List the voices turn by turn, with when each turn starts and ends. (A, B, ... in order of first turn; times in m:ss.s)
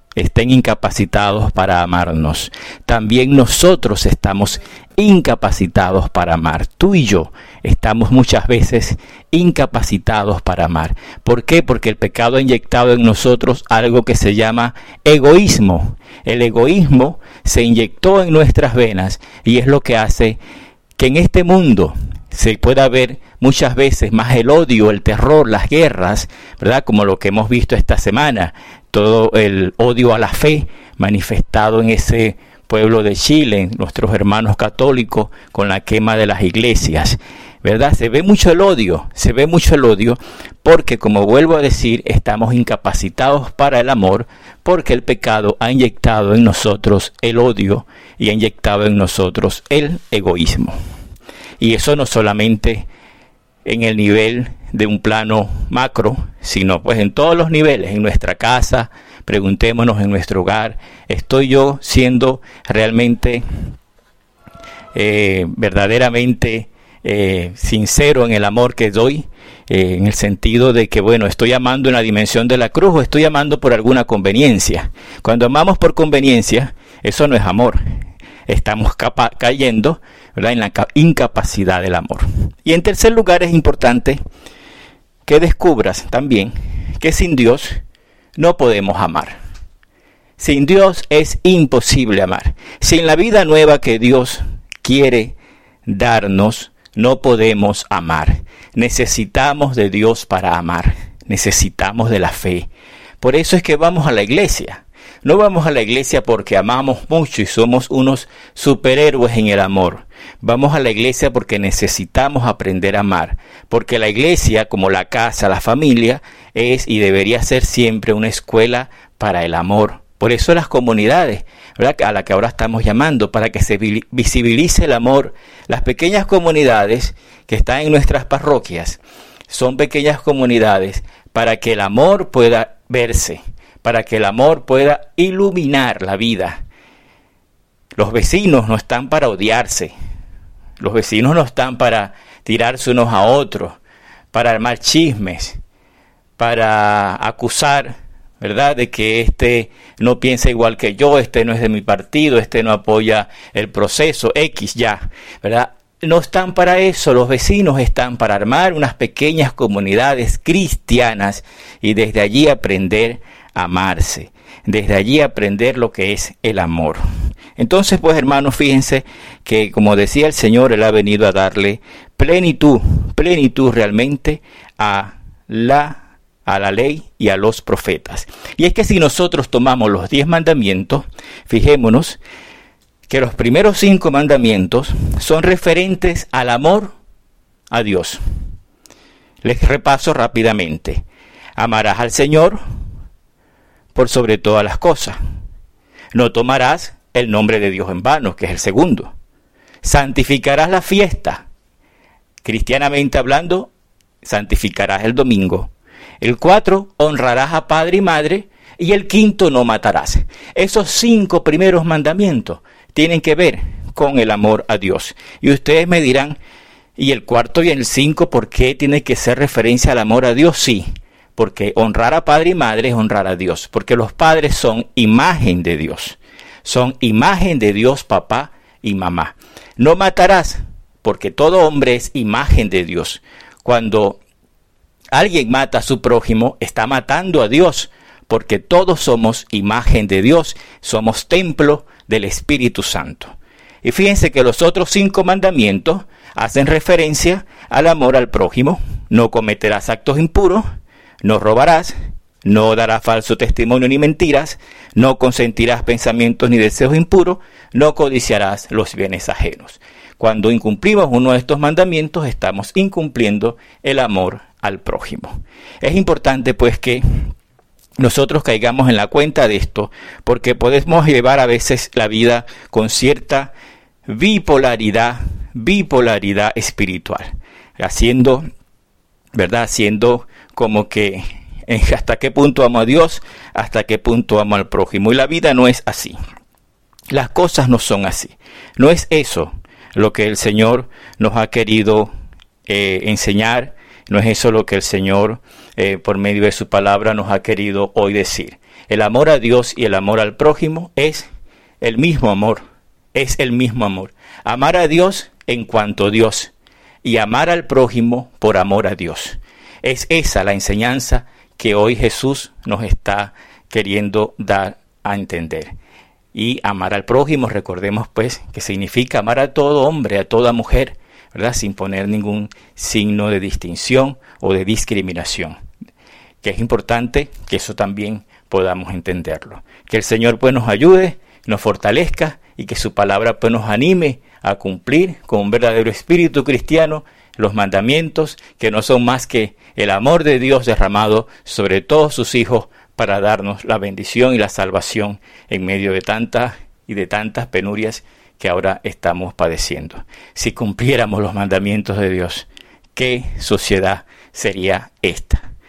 0:00.2-0:20.4 A
0:21.0-0:50.8 A
0:51.6-0:52.9 A
0:53.6-1:03.4 A
1:04.9-1:17.8 A
1:18.5-1:24.2 A
1:25.3-1:27.8 A
1:28.4-1:29.4 A
1:30.4-1:35.3 A
1:35.9-1:42.7 A
1:43.2-2:16.6 A
2:18.0-2:19.9 A
2:20.8-2:23.8 A
2:24.3-2:25.6 A
2:26.4-2:47.0 A
2:47.6-3:02.2 A
3:03.1-3:06.9 A
3:07.7-3:08.2 A
3:09.4-3:11.0 A
3:11.6-3:12.6 A
3:13.9-3:15.2 A
3:16.1-3:19.1 A
3:19.8-3:21.4 A
3:22.4-3:23.7 A
3:24.2-3:36.4 A
3:37.0-3:54.2 A
3:55.1-4:10.7 A
4:11.2-4:27.0 A
4:28.0-4:33.5 A
4:34.1-4:38.4 A
4:39.3-4:46.2 A
4:47.1-4:52.1 A
4:52.7-5:01.3 A
5:01.8-5:15.7 A
5:16.3-5:25.6 A
5:26.4-5:55.4 A